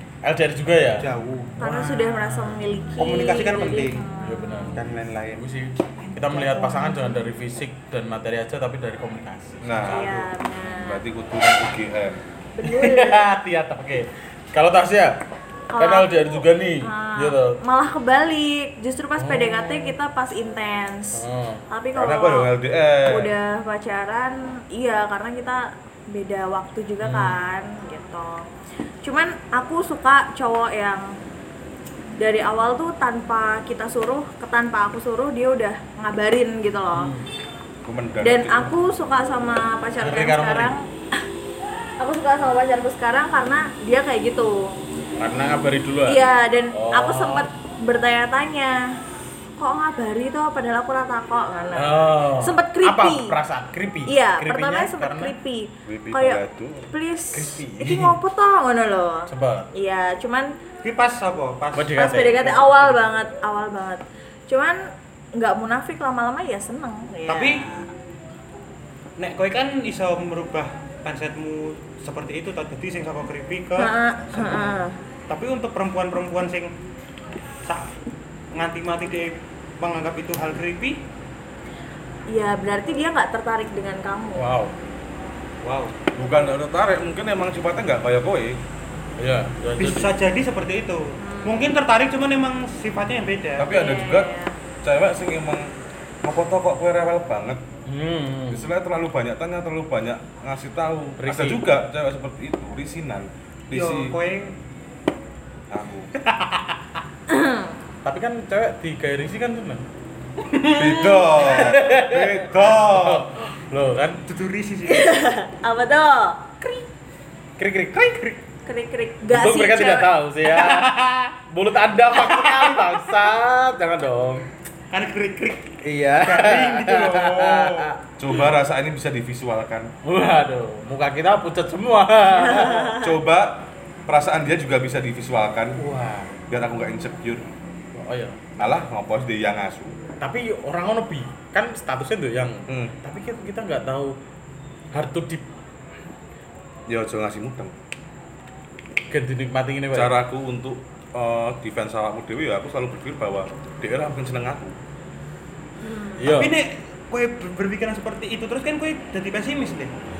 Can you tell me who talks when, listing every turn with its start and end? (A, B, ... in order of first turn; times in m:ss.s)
0:00.2-0:01.1 A
0:01.0-0:01.6 B
0:01.6-0:04.7 C
0:01.6-0:02.6 A
0:03.0-0:04.0 B
0:04.2-0:04.8 A
0:04.7-0:05.5 B
0:05.4-0:10.1 A
0:06.0-0:06.9 B
0:09.6-0:12.2 D
0:09.8-0:11.0 C
0:12.5-0:13.3 C
0:12.6-0:15.2 A
0:15.7-0:22.5 C
0:15.8-0:17.6 A
0:19.2-0:20.0 A
0:21.1-0:21.6 A
0:21.9-0:23.3 D
0:23.1-0:28.5 C
0:27.0-0:27.4 A
0:29.0-0:31.1 C
0:32.2-0:37.1 C
0:36.9-0:37.3 A
0:37.8-0:38.8 D
0:38.2-0:41.2 C
0:40.0-0:40.7 A
0:42.0-0:44.8 C
0:45.2-0:47.5 A
0:46.1-0:49.0 C
0:49.6-0:53.3 C
0:51.8-0:55.3 A
0:54.1-0:56.4 C
0:55.8-0:56.9 D
0:56.9-1:00.5 C
0:57.3-0:58.2 A
0:59.3-0:59.7 A
1:00.8-1:03.0 B
1:01.7-1:02.5 A
1:01.9-1:04.8 C
1:05.3-1:07.7 C
1:07.3-1:07.7 B
1:09.2-1:16.7 B
1:13.8-1:15.0 C
1:17.6-1:17.9 B
1:18.5-1:21.0 B
1:22.3-1:24.5 C
1:24.3-1:24.7 A
1:25.6-1:26.0 B
1:26.2-1:28.6 D
1:29.2-1:30.1 A
1:29.8-1:33.7 B
1:31.2-1:31.7 C
1:33.6-1:34.3 D
1:33.7-1:34.6 C
1:34.8-1:35.7 D
1:36.2-1:37.6 D
1:37.9-1:38.7 A
1:38.5-1:44.2 D
1:41.2-1:41.6 A
1:43.7-1:44.6 B
1:45.7-1:46.1 D
1:47.3-1:47.8 C
1:48.0-1:49.8 A
1:50.4-1:54.2 A
1:50.7-1:53.3 D
1:54.2-1:55.2 B
1:54.9-1:56.4 C
1:57.6-1:58.4 A
1:58.6-2:00.1 C
1:59.3-2:04.4 A
2:00.5-2:01.3 B
2:02.1-2:03.0 B
2:04.9-2:07.9 B
2:05.8-2:08.5 A
2:08.2-2:09.9 D
2:10.0-2:13.0 A
2:12.4-2:13.1 C
2:12.8-2:15.8 D
2:15.8-2:16.4 A
2:16.5-2:17.5 D
2:17.9-2:18.4 A
2:18.6-2:20.0 D
2:20.2-2:24.2 A
2:22.7-2:22.9 D
2:24.9-2:25.5 A
2:26.9-2:27.7 D
2:29.1-2:30.2 A
2:29.9-2:34.8 D
2:35.8-2:36.2 C
2:36.2-2:36.6 A
2:36.2-2:39.9 B